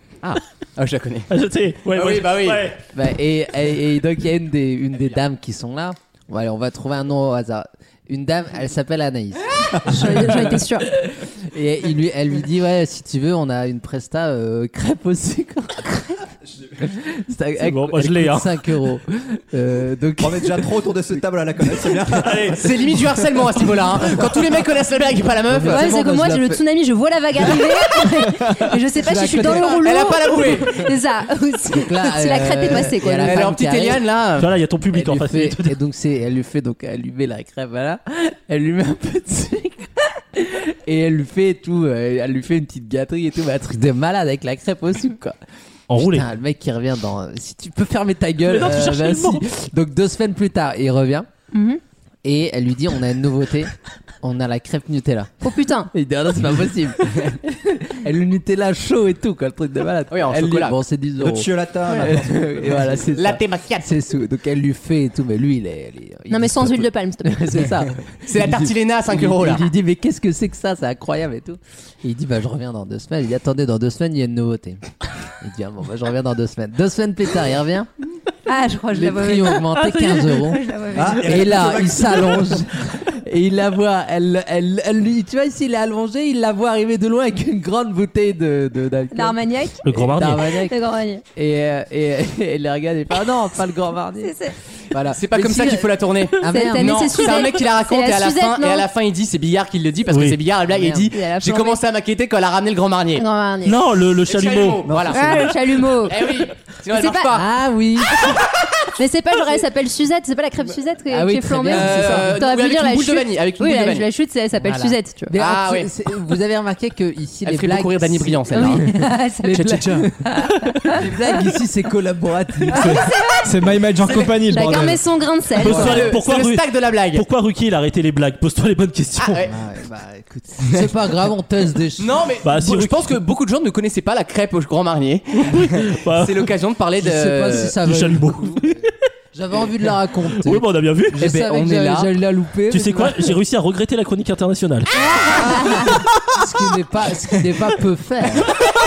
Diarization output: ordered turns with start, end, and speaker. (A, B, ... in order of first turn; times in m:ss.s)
0:00.2-0:01.3 A
0:01.3-0:02.8 B
0:01.9-0:02.8 A
0:02.9-0:16.2 C
0:09.7-0:10.9 D
0:16.8-0:21.2 C
0:17.6-0:18.6 B
0:20.2-0:22.8 E
0:22.1-0:22.6 B
0:22.5-0:25.9 A
0:25.5-0:26.6 C
0:25.7-0:33.6 D
0:29.0-0:29.9 C
0:29.8-0:30.8 A
0:31.7-0:34.0 C
0:33.2-0:34.5 A
0:34.4-0:35.8 B
0:34.9-0:45.4 C
0:45.9-0:46.3 B
0:45.9-0:51.3 C
0:48.5-0:49.4 B
0:51.5-0:51.8 D
0:52.2-0:55.3 C
0:55.4-0:55.9 D
0:55.9-1:14.8 C
1:00.1-1:00.8 A
1:01.2-1:03.0 E
1:03.2-1:03.9 A
1:06.3-1:07.6 D
1:08.2-1:09.7 A
1:15.4-1:17.9 C
1:18.5-1:21.7 D
1:18.9-1:29.4 C
1:19.8-1:20.4 B
1:20.9-1:22.6 E
1:29.1-1:29.9 D
1:29.8-1:30.4 B
1:29.9-1:30.8 C
1:30.4-1:31.2 D
1:31.4-1:34.4 C
1:34.2-1:34.6 D
1:34.9-1:37.5 C
1:35.1-1:43.3 A
1:36.4-1:38.9 D
1:40.1-1:40.4 B
1:40.7-1:41.1 C
1:41.1-1:41.8 D
1:43.2-1:43.8 D
1:43.6-1:45.5 B
1:44.2-1:47.4 A
1:44.9-1:45.2 E
1:45.1-1:46.3 D
1:46.9-1:47.3 D
1:47.3-1:48.4 C
1:49.0-1:55.4 D
1:51.1-1:52.4 C
1:51.7-1:54.1 A
1:54.6-2:03.0 C
1:55.4-1:55.9 A
1:57.4-1:59.0 A
1:58.5-1:59.6 D
1:59.5-2:00.1 A
2:02.7-2:03.5 D
2:02.7-2:05.0 F
2:04.1-2:04.4 A
2:04.4-2:06.1 D
2:05.6-2:09.4 B
2:05.6-2:07.2 A
2:09.2-2:09.6 A
2:09.4-2:12.2 C
2:12.0-2:17.8 A
2:12.4-2:13.2 B
2:15.4-2:16.5 B
2:17.0-2:18.8 C
2:17.6-2:18.9 B
2:19.3-2:23.4 C
2:20.2-2:21.2 B
2:21.2-2:22.1 A
2:22.7-2:25.6 B
2:24.9-2:26.0 D
2:26.3-2:28.5 C